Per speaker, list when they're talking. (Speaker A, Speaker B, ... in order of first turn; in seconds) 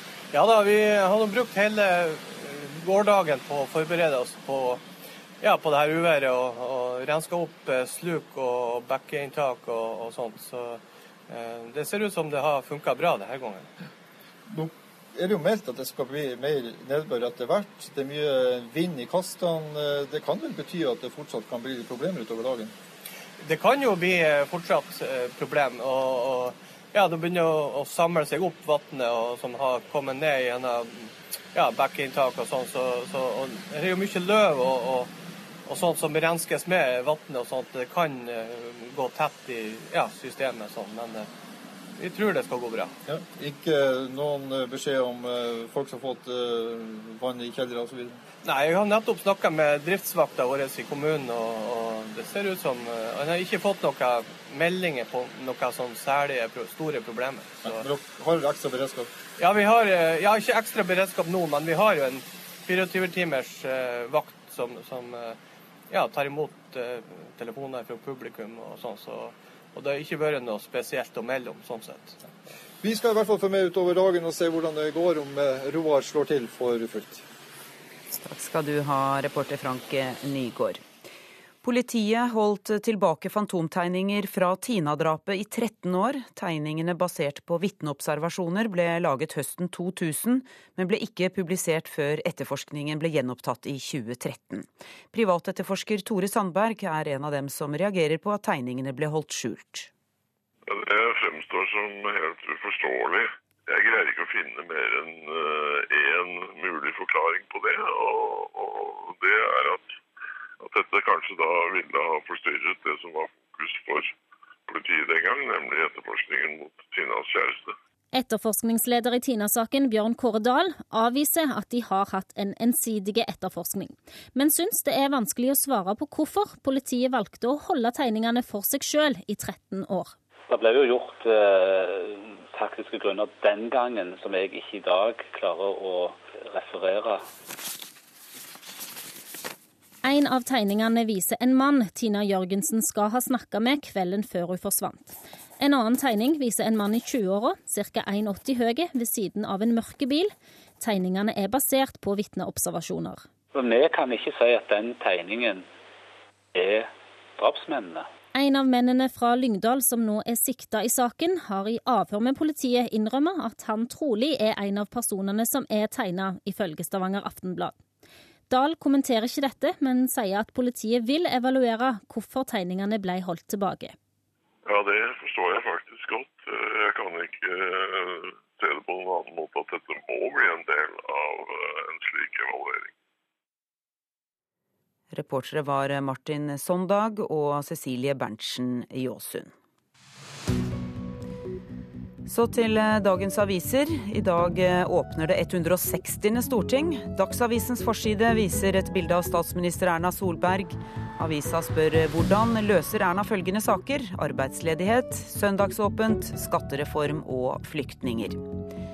Speaker A: 0.3-4.8, 5.4-13.7, 23.4-35.1, 35.6-41.3, 42.0-42.9, 48.4-57.9, 59.4-65.4, 65.9-72.2
Speaker B: 14.5-22.7, 43.1-48.2, 57.9-59.0, 72.8-77.2
Speaker C: 78.1-80.8, 81.6-99.9, 185.1-189.5, 192.2-208.4
Speaker D: 100.7-109.9, 110.6-114.1, 114.7-117.7, 174.7-182.9
Speaker E: 118.1-130.1, 140.0-153.2, 158.3-167.8, 168.5-173.9
Speaker F: 130.5-137.2, 153.5-155.6, 156.5-158.1